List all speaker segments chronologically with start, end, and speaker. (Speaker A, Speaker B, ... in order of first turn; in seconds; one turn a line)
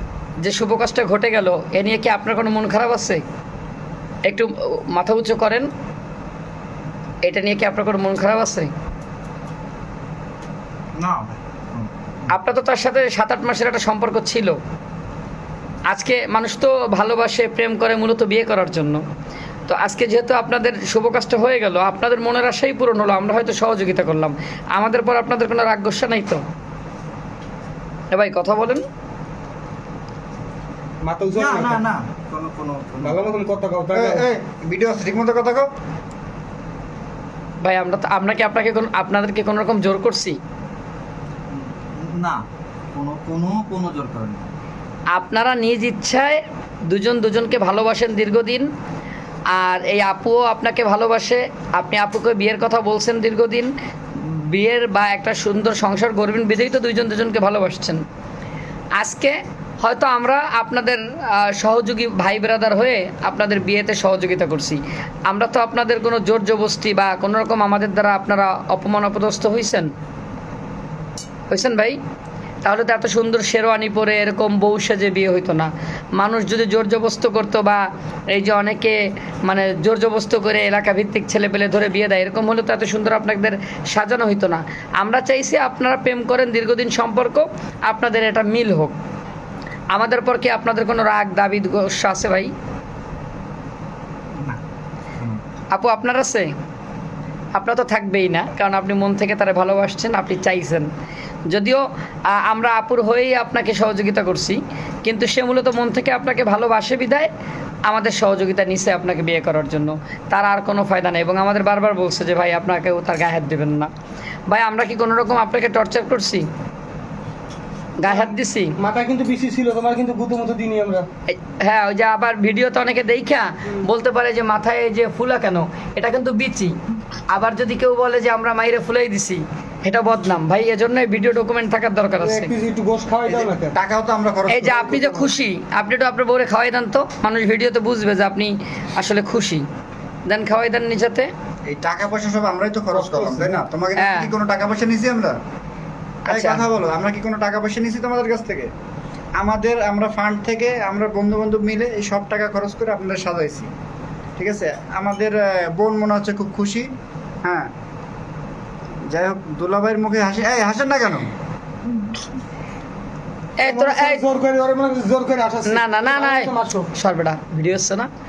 Speaker A: 0.4-3.2
Speaker A: 4.3-5.7
Speaker A: 7.2-8.7
Speaker B: 11.0-11.9
Speaker A: 12.3-14.6
Speaker A: 15.9-19.0
Speaker A: 19.7-26.4
Speaker A: 28.1-28.8
Speaker C: 31.0-31.8
Speaker B: 31.3-33.2
Speaker C: 33.0-34.3
Speaker D: 33.9-35.7
Speaker A: 37.6-40.4
Speaker B: 41.5-42.4
Speaker B: 43.0-44.4
Speaker A: 45.1-48.7
Speaker A: 49.5-58.0
Speaker A: 59.0-69.9
Speaker A: 71.5-72.0
Speaker A: 72.6-89.0
Speaker A: 89.9-92.5
Speaker A: 95.7-96.5
Speaker A: 97.5-100.9
Speaker A: 101.5-107.3
Speaker A: 107.9-113.9
Speaker A: 114.5-116.5
Speaker A: 118.0-118.8
Speaker C: 118.0-121.1
Speaker A: 121.3-126.8
Speaker A: 127.3-132.5
Speaker C: 132.2-133.7
Speaker D: 133.3-135.1
Speaker A: 134.5-139.7
Speaker C: 135.0-135.2
Speaker A: 140.3-141.3
Speaker D: 141.7-145.4
Speaker C: 142.9-143.5
Speaker A: 144.0-144.3
Speaker A: 146.3-146.6
Speaker D: 146.3-148.7
Speaker D: 149.4-153.7
Speaker D: 154.4-156.9
Speaker D: 157.4-157.7
Speaker D: 159.0-161.3
Speaker A: 163.6-164.3
Speaker C: 163.6-166.9
Speaker A: 165.7-168.1